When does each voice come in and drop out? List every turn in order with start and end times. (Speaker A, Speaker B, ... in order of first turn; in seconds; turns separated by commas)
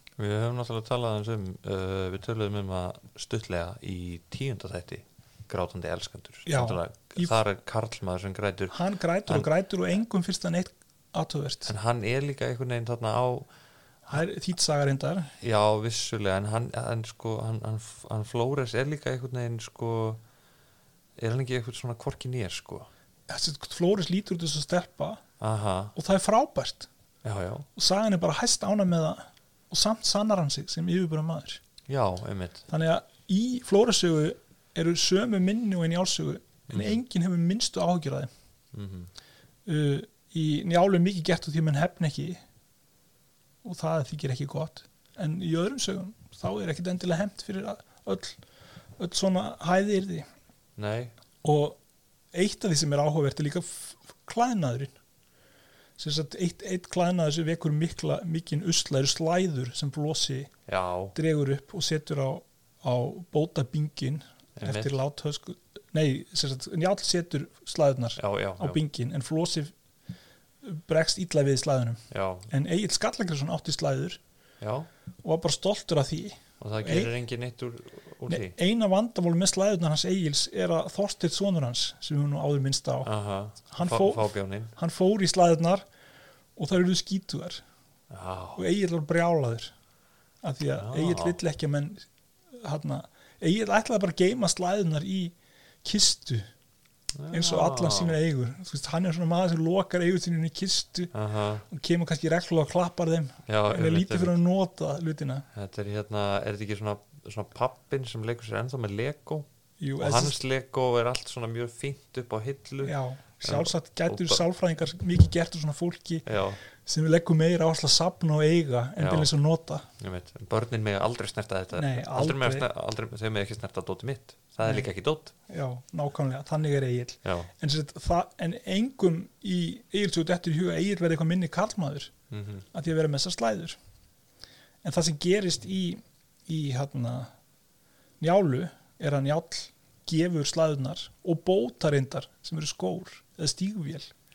Speaker A: 0.2-8.7, Speaker B: 6.5-7.4, Speaker B: 8.7-11.7, Speaker A: 11.7-13.5, Speaker B: 14.1-15.3, Speaker A: 15.4-20.2, Speaker A: 21.2-22.9, Speaker B: 23.3-25.2, Speaker A: 25.4-25.9, Speaker B: 25.9-26.9, Speaker A: 27.2-27.7, Speaker B: 27.8-31.6, Speaker A: 31.9-32.7, Speaker B: 32.7-38.3, Speaker A: 36.7-37.0, Speaker A: 38.7-39.1, Speaker B: 39.7-42.4, Speaker B: 43.6-48.4, Speaker B: 49.0-50.3, Speaker A: 50.8-51.1, Speaker B: 51.4-51.8, Speaker B: 52.3-54.9, Speaker B: 56.0-60.5, Speaker A: 60.7-61.2, Speaker B: 61.1-69.7, Speaker A: 64.6-65.0, Speaker A: 68.2-68.8, Speaker B: 70.6-74.2, Speaker A: 72.1-72.5, Speaker A: 74.6-74.9, Speaker B: 75.2-77.1, Speaker A: 76.6-78.5, Speaker B: 78.3-83.1, Speaker A: 83.0-84.7, Speaker B: 83.7-85.8, Speaker B: 86.6-87.6, Speaker A: 88.1-88.6, Speaker B: 88.6-89.7, Speaker B: 90.4-92.1, Speaker A: 90.8-91.4, Speaker B: 92.6-96.5, Speaker A: 97.2-98.2, Speaker B: 97.3-101.1, Speaker A: 101.1-101.7, Speaker B: 101.7-105.5, Speaker A: 103.5-104.4, Speaker A: 105.5-109.5, Speaker B: 109.8-110.4, Speaker A: 110.0-114.4, Speaker B: 112.8-119.9, Speaker A: 116.3-116.6, Speaker A: 119.0-119.3, Speaker A: 120.0-125.3, Speaker B: 121.8-122.7, Speaker B: 125.5-132.1, Speaker A: 132.3-132.7, Speaker B: 132.7-133.8, Speaker B: 134.8-137.3, Speaker B: 138.2-144.1